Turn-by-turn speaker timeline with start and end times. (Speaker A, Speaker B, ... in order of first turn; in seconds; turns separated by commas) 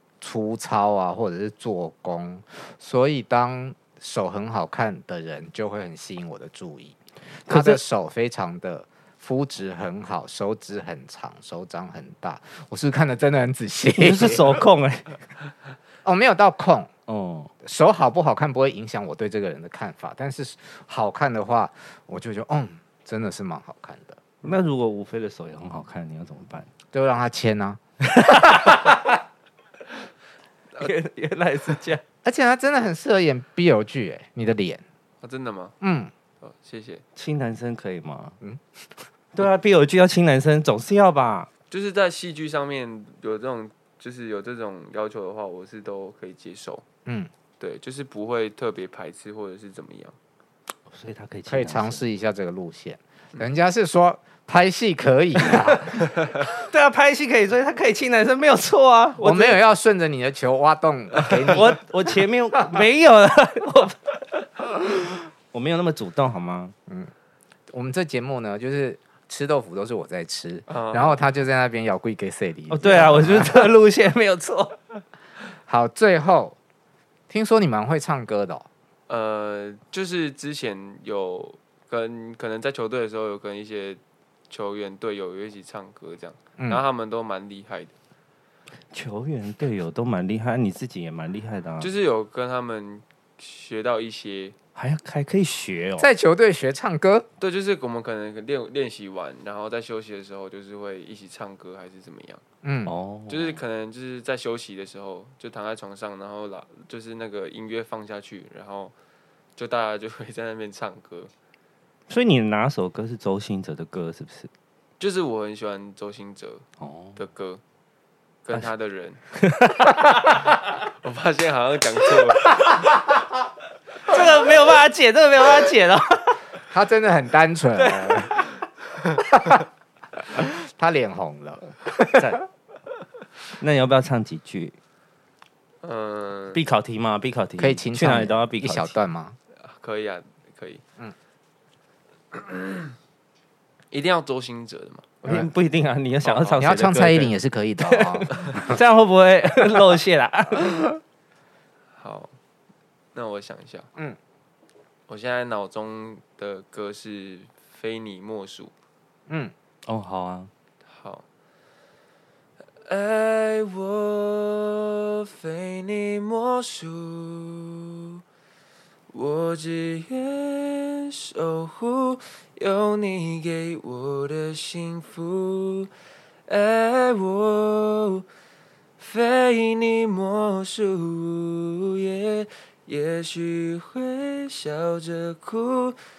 Speaker A: 0.2-14.5, Speaker B: 7.5-7.8, Speaker B: 13.9-15.2, Speaker A: 16.1-16.9, Speaker B: 17.1-17.5, Speaker A: 17.6-24.4, Speaker B: 24.4-26.7, Speaker A: 26.9-29.1, Speaker B: 28.1-29.0, Speaker B: 30.8-32.0, Speaker A: 32.2-34.8, Speaker C: 35.2-35.7, Speaker A: 35.8-36.1, Speaker C: 36.4-37.0, Speaker B: 37.2-38.4, Speaker B: 39.3-41.5, Speaker C: 41.7-46.8, Speaker A: 47.1-47.3, Speaker C: 47.6-50.2, Speaker B: 50.9-52.0, Speaker A: 51.5-56.1, Speaker B: 56.4-59.6, Speaker A: 59.2-61.8, Speaker B: 61.3-66.7, Speaker A: 67.7-73.7, Speaker C: 70.7-71.2, Speaker B: 72.7-74.8, Speaker A: 75.7-76.6, Speaker A: 77.3-78.7, Speaker C: 79.1-88.0, Speaker A: 86.6-86.8, Speaker B: 88.9-91.9, Speaker C: 91.8-94.6, Speaker B: 94.7-96.1, Speaker A: 96.0-97.3, Speaker C: 97.4-102.4, Speaker A: 102.6-103.0, Speaker B: 102.8-103.6, Speaker C: 103.3-108.9, Speaker C: 109.6-111.3, Speaker B: 112.1-114.5, Speaker C: 115.0-116.6, Speaker B: 116.8-117.2, Speaker C: 117.2-117.6, Speaker C: 118.4-119.2, Speaker B: 119.3-120.7, Speaker C: 121.0-122.5, Speaker B: 124.1-126.4, Speaker A: 126.7-128.4, Speaker B: 127.8-128.4, Speaker A: 129.2-129.6, Speaker A: 130.3-132.4, Speaker B: 133.6-134.8, Speaker C: 135.8-136.6, Speaker B: 136.5-138.9, Speaker A: 137.6-139.4, Speaker C: 139.6-140.8, Speaker C: 142.3-142.9, Speaker C: 143.9-145.1, Speaker A: 145.2-145.5, Speaker B: 145.2-151.0, Speaker C: 146.2-146.6, Speaker A: 146.6-148.8, Speaker C: 152.0-152.3, Speaker C: 153.1-153.9, Speaker C: 155.1-158.7, Speaker A: 159.3-159.5, Speaker B: 159.9-160.5, Speaker C: 160.8-161.2, Speaker C: 162.8-168.2, Speaker C: 169.1-175.9, Speaker C: 176.5-178.2, Speaker C: 179.0-186.0